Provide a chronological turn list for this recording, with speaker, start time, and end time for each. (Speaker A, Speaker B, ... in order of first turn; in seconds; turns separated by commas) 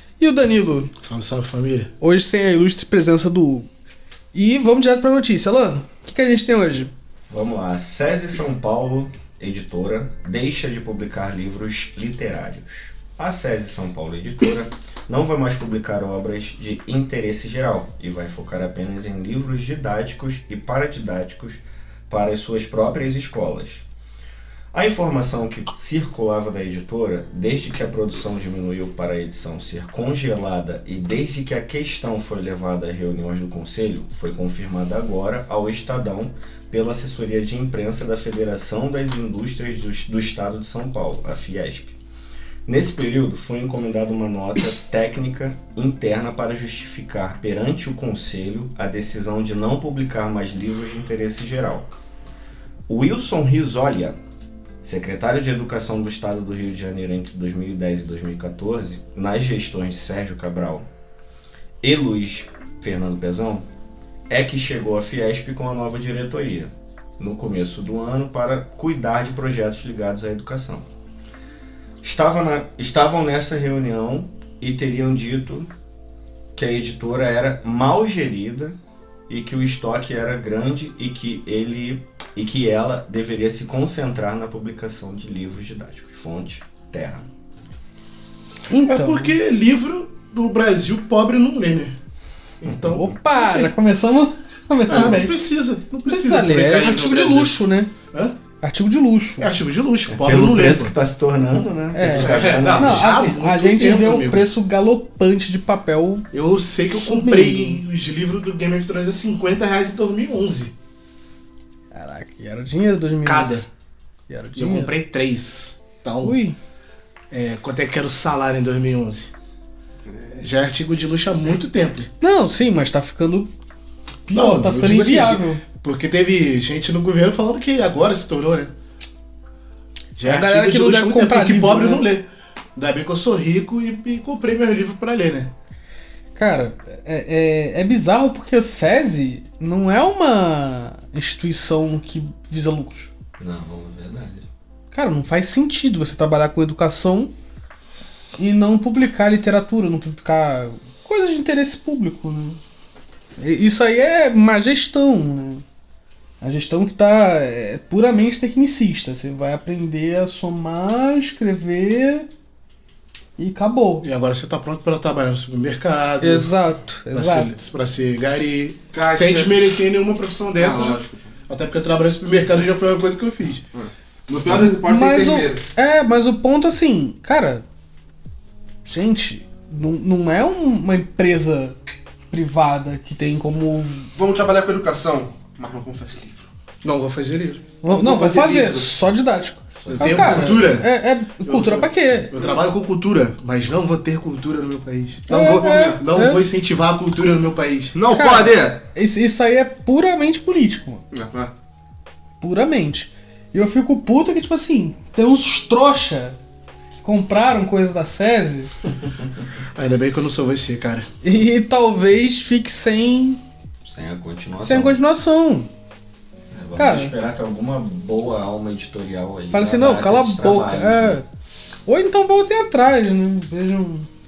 Speaker A: 0.2-0.9, Speaker B: 1.0-1.9, Speaker A: 2.0-3.7, Speaker A: 4.3-6.9, Speaker C: 7.3-23.9, Speaker C: 24.7-42.0, Speaker C: 42.7-51.9, Speaker C: 52.9-54.2, Speaker C: 54.8-60.9, Speaker C: 61.8-63.7, Speaker C: 64.3-70.9, Speaker C: 72.0-75.7, Speaker C: 76.5-78.8, Speaker C: 79.3-87.3, Speaker A: 88.7-89.4, Speaker B: 88.8-92.0, Speaker B: 92.6-93.7, Speaker C: 92.7-93.0, Speaker A: 92.8-95.3, Speaker B: 94.9-97.5, Speaker A: 96.1-97.9, Speaker B: 98.1-98.4, Speaker A: 98.6-99.5, Speaker B: 99.4-100.9, Speaker C: 100.1-103.2, Speaker A: 101.9-106.3, Speaker B: 102.0-104.5, Speaker B: 106.3-110.7, Speaker A: 106.9-107.8, Speaker A: 111.9-113.7, Speaker B: 113.2-113.7, Speaker A: 114.3-114.9, Speaker B: 114.6-116.4, Speaker A: 116.2-116.6, Speaker B: 117.3-119.3, Speaker D: 120.1-120.4, Speaker B: 120.4-122.1, Speaker A: 122.2-123.5, Speaker A: 124.3-125.6, Speaker B: 124.3-128.7, Speaker B: 130.2-135.5, Speaker A: 130.2-132.1, Speaker A: 136.4-143.1, Speaker C: 143.4-144.5, Speaker A: 144.9-147.3, Speaker A: 148.4-152.6, Speaker A: 153.4-155.6, Speaker A: 156.4-162.3, Speaker A: 163.4-164.1, Speaker B: 164.0-166.5, Speaker A: 166.2-167.6, Speaker B: 167.1-173.6, Speaker D: 168.9-169.7, Speaker D: 170.6-171.3, Speaker D: 173.7-175.6, Speaker A: 174.8-177.7, Speaker A: 178.8-181.8, Speaker A: 182.3-184.1, Speaker D: 184.1-186.5, Speaker B: 186.8-187.6, Speaker A: 187.8-192.6, Speaker D: 187.9-188.9, Speaker C: 189.8-190.6, Speaker B: 189.9-190.9, Speaker B: 191.4-198.0, Speaker A: 195.3-196.4, Speaker D: 195.6-196.0, Speaker D: 197.9-198.8, Speaker A: 198.1-201.0, Speaker D: 201.1-201.5, Speaker A: 202.4-206.4, Speaker A: 207.0-208.7, Speaker B: 209.8-211.1, Speaker A: 211.2-213.4, Speaker C: 213.8-215.0, Speaker A: 214.6-215.7, Speaker C: 216.5-221.2, Speaker A: 216.8-217.1, Speaker A: 219.5-221.2, Speaker A: 221.9-224.1